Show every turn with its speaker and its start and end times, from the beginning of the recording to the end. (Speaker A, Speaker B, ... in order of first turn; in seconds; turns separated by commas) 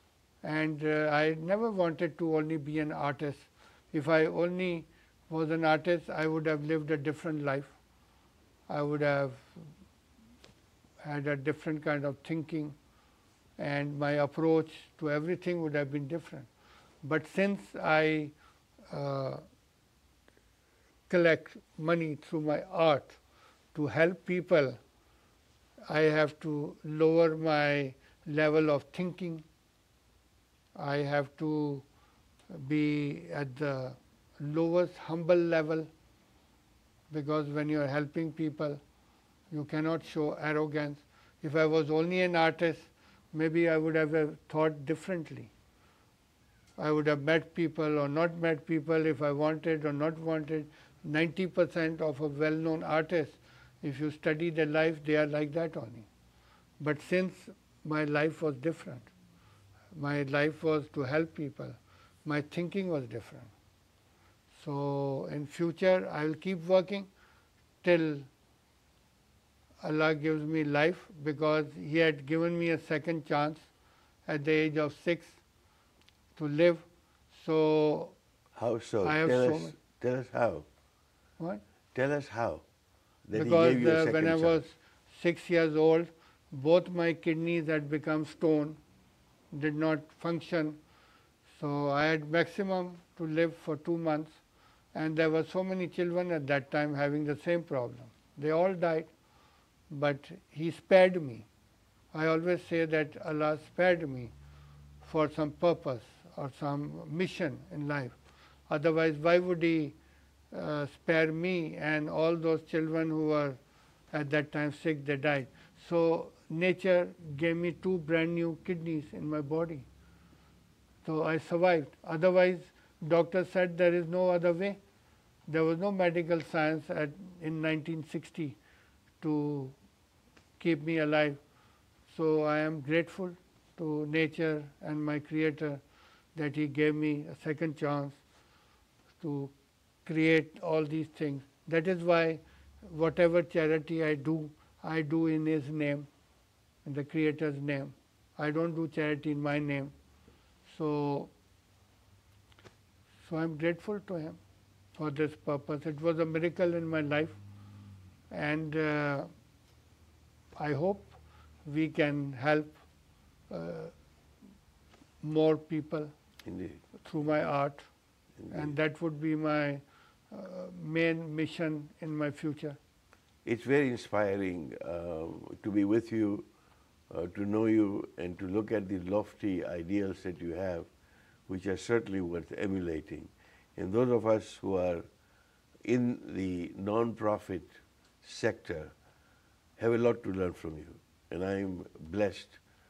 Speaker A: 0.4-7.7, Speaker A: 8.7-9.5, Speaker A: 11.0-12.8, Speaker A: 13.6-16.5, Speaker A: 17.0-18.3, Speaker A: 18.9-19.4, Speaker A: 21.1-23.2, Speaker A: 23.8-24.8, Speaker A: 25.9-29.4, Speaker A: 30.8-31.9, Speaker A: 32.5-35.9, Speaker A: 37.1-38.8, Speaker A: 39.5-45.5, Speaker A: 46.8-56.1, Speaker A: 56.8-59.1, Speaker A: 59.9-63.5, Speaker A: 64.6-67.1, Speaker A: 67.8-68.3, Speaker A: 69.8-73.7, Speaker A: 74.3-75.4, Speaker A: 76.4-78.2, Speaker B: 78.6-80.7, Speaker A: 79.0-79.8, Speaker B: 81.9-82.7, Speaker B: 83.3-84.7, Speaker A: 83.3-88.8, Speaker A: 89.5-90.8, Speaker A: 91.6-94.4, Speaker A: 94.9-99.1, Speaker A: 99.9-101.5, Speaker A: 102.1-104.3, Speaker A: 105.0-108.2, Speaker A: 108.7-110.0, Speaker A: 110.5-113.6, Speaker A: 114.1-119.9, Speaker A: 121.0-124.8, Speaker A: 125.5-128.6, Speaker A: 129.2-129.8, Speaker A: 130.6-131.4, Speaker A: 132.1-135.8, Speaker A: 136.3-138.2, Speaker A: 139.2-139.5, Speaker A: 140.1-146.1, Speaker A: 146.8-149.9, Speaker A: 150.7-151.3, Speaker A: 153.2-154.4, Speaker A: 155.0-157.4, Speaker A: 158.3-159.3, Speaker A: 160.6-162.8, Speaker A: 163.5-163.9, Speaker A: 165.2-166.1, Speaker B: 166.4-166.8, Speaker A: 167.0-167.9, Speaker B: 168.4-168.7, Speaker A: 168.5-172.8, Speaker B: 173.4-176.5, Speaker B: 177.1-180.9, Speaker B: 181.5-185.1, Speaker B: 185.8-188.9, Speaker B: 189.8-192.6